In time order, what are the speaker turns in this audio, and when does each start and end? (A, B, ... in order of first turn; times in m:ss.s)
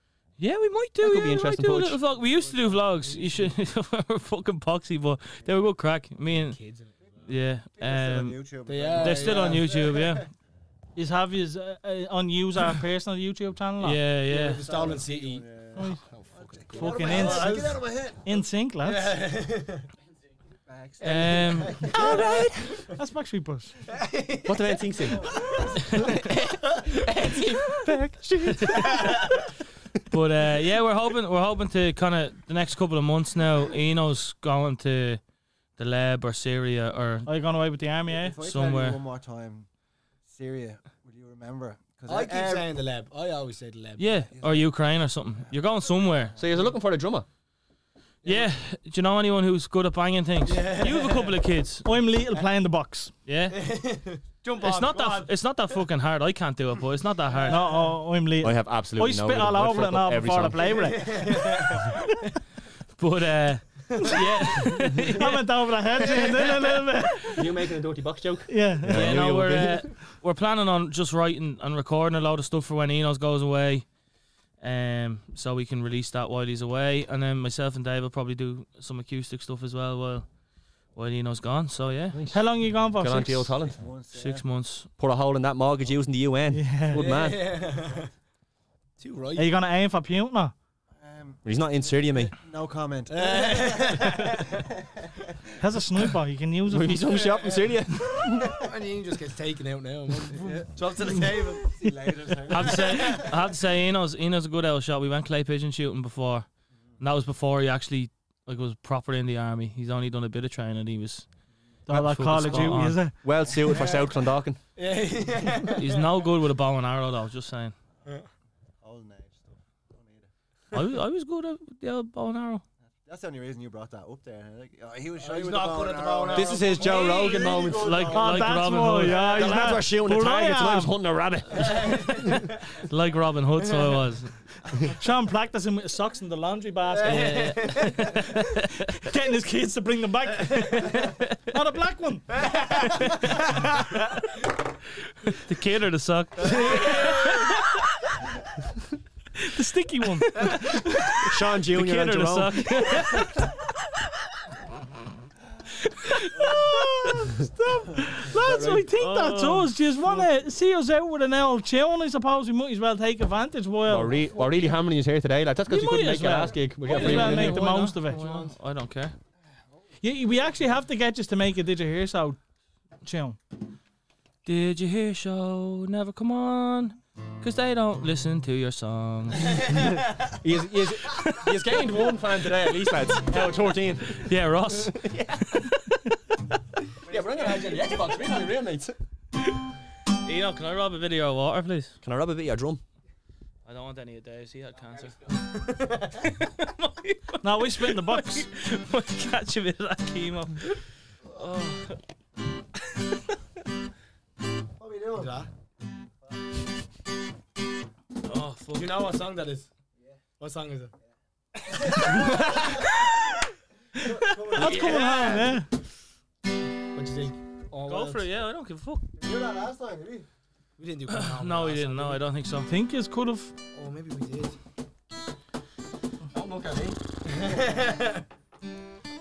0:00.4-0:06.6 A
0:01.0-0:02.0 B
0:02.4-0:02.9 C
0:03.0-0:03.5 D
0:06.5-0:07.1 D
0:07.2-0:10.2 C
0:07.2-0:10.3 A
0:08.6-0:09.8 D
0:11.0-0:14.0 E
0:13.8-0:14.6 A
0:14.3-0:15.4 D
0:14.5-0:18.4 C
0:16.1-0:17.8 D
0:16.7-0:19.2 E
0:18.8-0:19.8 D
0:20.6-0:21.7 C
0:21.0-0:22.2 A
0:21.0-0:22.9 D
0:22.0-0:22.4 B
0:22.0-0:23.7 E
0:23.9-0:26.2 D
0:24.4-0:25.3 B
0:25.3-0:25.7 C
0:25.9-0:26.1 A
0:26.1-0:29.3 B
0:28.7-0:29.4 D
0:28.9-0:29.2 A
0:30.1-0:35.2 A
0:35.8-0:37.3 A
0:37.2-0:38.4 E
0:38.1-0:39.7 C
0:38.4-0:39.0 A
0:40.2-0:42.7 C
0:42.1-0:44.1 D
0:44.0-0:46.4 A
0:44.3-0:44.6 C
0:46.4-0:47.3 B
0:48.2-0:48.5 D
0:48.2-0:51.8 A
0:50.4-0:51.3 D
0:51.8-0:53.1 E
0:53.2-0:53.6 A
0:53.5-0:55.3 D
0:54.6-0:57.7 A
0:57.5-1:02.1 E
0:58.4-1:00.8 B
1:00.8-1:02.0 D
1:03.0-1:05.5 A
1:04.0-1:04.8 D
1:04.0-1:07.5 E
1:06.0-1:06.8 D
1:07.3-1:09.9 B
1:08.5-1:09.2 E
1:08.9-1:13.8 A
1:14.6-1:20.2 A
1:20.9-1:22.2 A
1:22.1-1:22.4 B
1:22.3-1:23.5 E
1:23.0-1:23.8 B
1:23.6-1:24.4 C
1:24.1-1:24.9 A
1:25.0-1:27.5 B
1:26.5-1:27.1 E
1:26.9-1:28.1 D
1:29.0-1:29.5 D
1:29.4-1:30.5 E
1:31.0-1:35.4 C
1:31.4-1:32.3 B
1:33.1-1:34.6 D
1:35.6-1:37.0 E
1:36.7-1:38.6 B
1:37.1-1:37.6 D
1:38.5-1:41.7 D
1:40.1-1:43.4 C
1:42.5-1:46.5 A
1:42.5-1:43.3 D
1:47.0-1:51.3 A
1:51.9-1:53.2 E
1:51.9-1:53.0 A
1:52.4-1:54.6 B
1:53.7-1:54.1 D
1:54.8-1:56.1 D
1:55.7-1:57.7 A
1:58.8-2:00.3 C
2:00.7-2:02.6 A
2:03.0-2:08.6 C
2:05.2-2:07.3 D
2:06.3-2:08.1 B
2:06.9-2:09.7 A
2:08.0-2:10.9 E
2:09.3-2:12.2 B
2:11.5-2:12.5 D
2:12.4-2:14.3 A
2:13.6-2:14.0 D
2:14.9-2:17.6 E
2:16.9-2:18.3 D
2:17.0-2:18.8 A
2:18.8-2:22.4 E
2:20.5-2:21.4 A
2:22.3-2:24.0 D
2:23.0-2:23.5 A
2:25.2-2:27.8 A
2:26.4-2:27.5 D
2:29.4-2:31.1 E
2:30.2-2:33.4 A
2:31.2-2:33.0 B
2:35.9-2:37.1 A
2:36.4-2:44.2 E
2:38.2-2:38.8 C
2:38.9-2:39.7 A
2:43.8-2:47.7 B
2:45.7-2:48.5 E
2:46.8-2:48.5 D
2:46.8-2:49.1 A
2:50.0-2:52.4 E
2:53.0-2:53.4 E
2:54.4-2:59.7 A
2:59.9-3:04.3 B
3:04.1-3:06.2 A
3:04.8-3:05.4 B
3:07.1-3:09.0 B
3:10.2-3:11.9 A
3:12.0-3:12.8 B
3:13.6-3:15.3 A
3:16.2-3:20.8 A
3:17.4-3:18.5 E
3:21.3-3:22.0 A
3:24.8-3:25.4 C
3:25.1-3:25.5 D
3:28.2-3:29.1 A
3:28.7-3:29.7 D
3:30.4-3:30.9 D
3:31.7-3:32.9 C
3:31.7-3:32.8 D
3:33.9-3:35.3 C
3:34.0-3:34.5 A
3:34.5-3:35.6 D
3:34.5-3:35.7 E
3:36.9-3:38.2 D
3:37.9-3:39.0 A
3:39.2-3:40.3 C
3:40.8-3:42.2 D
3:41.1-3:42.7 A
3:42.7-3:43.5 E
3:43.7-3:44.6 D
3:46.3-3:46.8 B
3:47.2-3:48.2 D